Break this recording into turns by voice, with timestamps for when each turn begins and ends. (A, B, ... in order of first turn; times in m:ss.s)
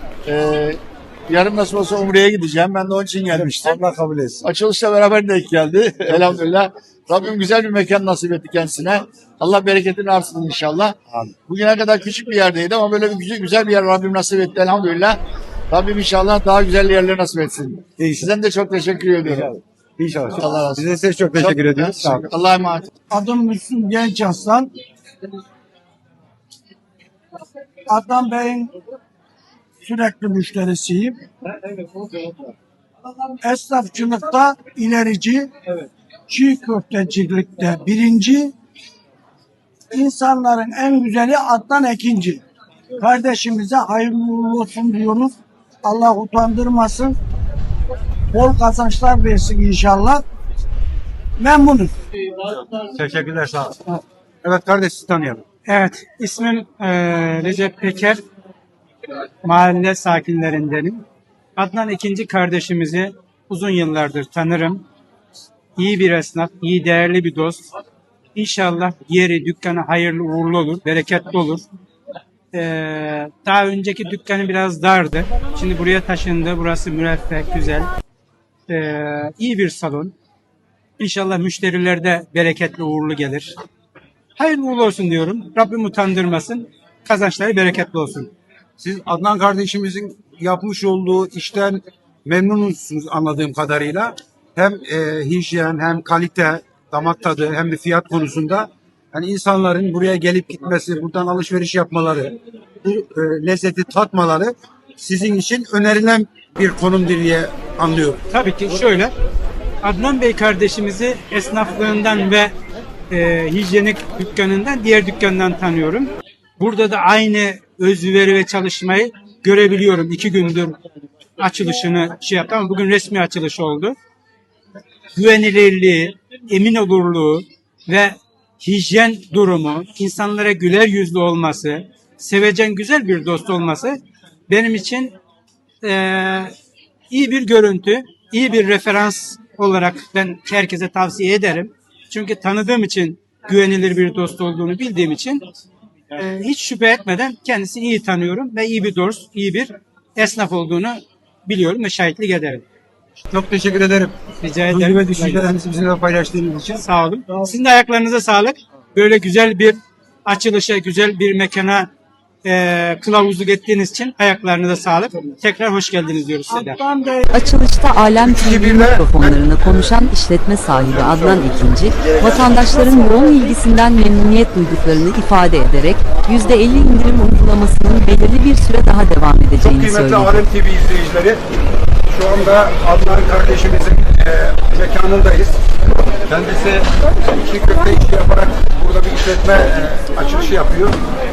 0:00.2-0:03.8 A
0:03.3-0:04.4 B
0:04.4-0:15.2 A
0:15.7-0:19.5 A
0:18.0-0:18.3 B
0:19.3-0:22.2 B
0:20.4-0:20.8 A
0:21.4-0:22.9 A
0:23.1-0:24.7 C
0:27.9-0:28.7 C
0:29.8-0:31.2 C
0:33.4-0:35.5 C
0:36.3-0:38.5 C
0:39.9-0:42.4 C
0:43.0-0:47.2 C
0:48.3-0:50.2 C
0:51.4-0:51.9 C
0:52.7-0:55.4 B
0:55.7-0:58.2 D
0:59.4-1:01.0 D
1:01.6-1:04.8 D
1:05.8-1:07.7 D
1:08.3-1:11.6 D
1:12.5-1:17.9 D
1:18.7-1:20.1 D
1:21.0-1:23.5 D
1:24.4-1:28.3 D
1:28.8-1:48.2 B
1:48.3-1:49.1 D
1:49.8-1:52.5 D
1:53.1-2:00.8 D
2:01.4-2:04.0 D
2:05.1-2:15.2 D
2:15.8-2:16.5 D
2:17.1-2:25.4 D
2:26.1-2:32.6 D
2:33.3-2:34.2 B
2:34.4-2:35.4 D
2:34.7-2:36.8 B
2:36.8-2:41.9 D
2:42.4-2:46.8 D
2:46.5-2:47.3 C
2:47.3-3:00.4 E
2:48.2-2:49.9 B
2:50.8-2:52.2 B
2:59.6-3:01.4 B
3:02.1-3:11.0 B